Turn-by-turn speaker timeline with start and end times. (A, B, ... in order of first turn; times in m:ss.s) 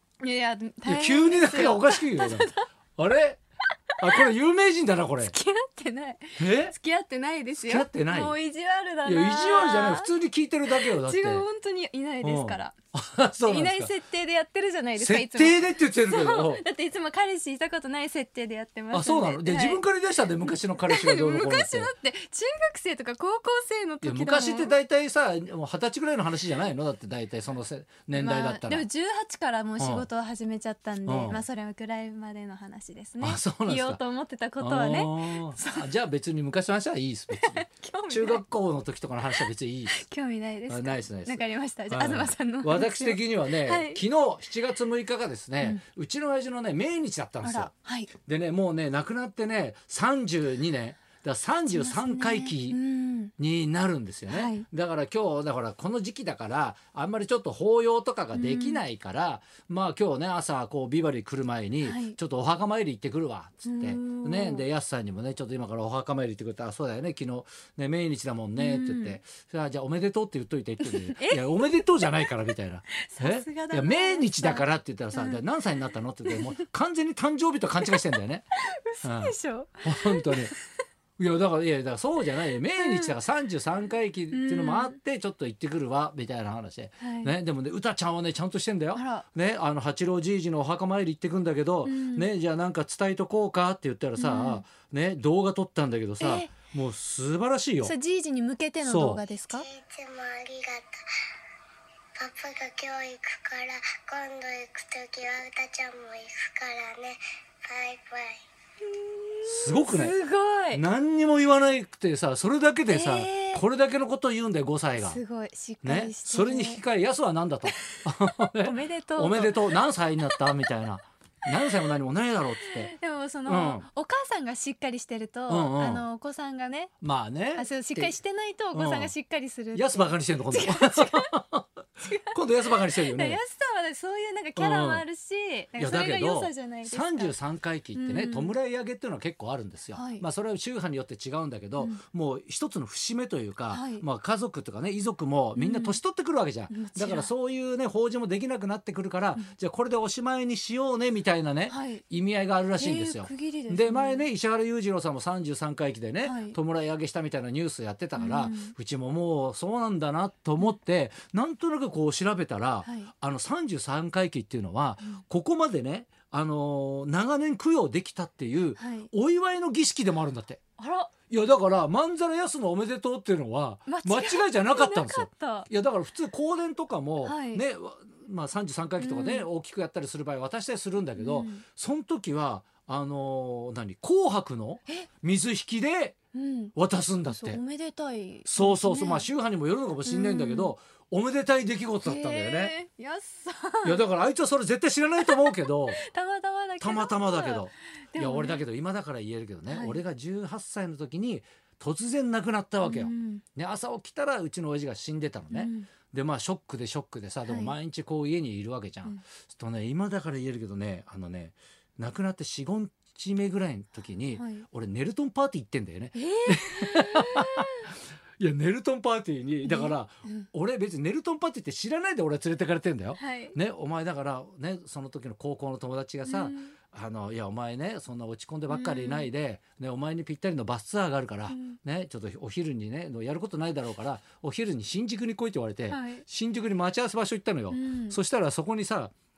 0:00.2-0:02.7 A
0:00.8-0:03.4 B
0:04.0-0:04.2 A
0:04.0-0:05.3 B
0:05.2-0:10.1 A
0:06.4-0:06.7 B
0:07.6-0:08.3 B
0:09.0-0:11.4 B
0:10.7-0:12.7 A
0:12.2-0:13.9 B
0:13.4-0:19.8 A
0:15.0-0:16.6 B
0:18.9-0:21.9 B
0:20.4-0:24.7 A
0:24.0-0:28.8 B
0:28.1-0:35.9 A
0:29.8-0:30.0 B
0:31.0-0:31.4 B
0:33.2-0:34.0 B
0:34.6-0:40.0 B
0:37.4-0:38.4 A
0:39.9-0:44.0 A
0:40.7-0:47.7 B
0:47.4-0:48.1 A
0:48.2-0:52.8 B
0:51.7-0:53.3 A
0:53.4-1:18.4 B
0:54.3-0:54.7 A
0:58.3-0:58.8 A
1:01.8-1:02.2 A
1:03.6-1:04.6 A
1:08.6-1:09.2 A
1:10.8-1:11.8 A
1:13.0-1:15.4 A
1:16.3-1:16.6 A
1:18.5-1:20.6 A
1:19.0-1:20.5 B
1:21.2-1:37.9 B
1:22.8-1:23.1 A
1:24.3-1:25.0 A
1:27.0-1:27.3 A
1:28.9-1:29.2 A
1:31.8-1:32.3 A
1:34.2-1:34.6 A
1:36.2-1:36.5 A
1:37.8-1:39.7 A
1:38.8-1:39.2 B
1:39.7-1:40.9 C
1:42.2-1:48.4 C
1:48.8-1:50.8 A
1:49.4-1:50.1 B
1:50.7-1:55.2 B
1:52.9-1:53.6 A
1:55.0-1:56.8 A
1:55.8-2:02.9 B
1:57.6-1:59.7 A
2:02.8-2:06.9 A
2:03.4-2:03.8 B
2:05.5-2:06.0 B
2:07.0-2:08.1 B
2:07.6-2:11.3 A
2:08.7-2:09.1 B
2:09.7-2:11.7 B
2:12.0-2:17.3 A
2:12.3-2:13.4 B
2:14.6-2:15.0 B
2:15.8-2:50.6 B
2:17.9-2:18.5 A
2:19.9-2:20.2 A
2:23.7-2:24.0 A
2:25.6-2:26.0 A
2:26.7-2:27.3 A
2:31.7-2:32.0 A
2:32.8-2:34.2 A
2:36.2-2:36.6 A
2:38.2-2:38.7 A
2:42.8-2:43.1 A
2:48.8-2:49.1 A
2:50.8-2:51.1 A
2:51.3-3:06.2 B
2:53.9-2:55.7 A
2:57.2-2:57.6 A
2:59.0-2:59.4 A
3:01.2-3:01.6 A
3:06.3-3:06.7 A
3:06.7-3:07.6 B
3:07.3-3:09.3 A
3:08.5-3:12.7 B
3:10.0-3:10.7 A
3:12.0-3:14.0 A
3:13.8-3:16.0 B
3:15.2-3:18.6 A
3:16.8-3:59.1 B
3:19.7-3:20.0 A
3:22.8-3:23.4 A
3:25.5-3:25.9 A
3:27.4-3:27.7 A
3:34.3-3:34.6 A
3:36.1-3:37.9 A
3:39.6-3:40.4 A
3:43.2-3:43.6 A
3:46.3-3:46.7 A
3:48.7-3:49.3 A
3:51.5-3:51.8 A
3:55.9-3:56.2 A
3:57.7-3:58.2 A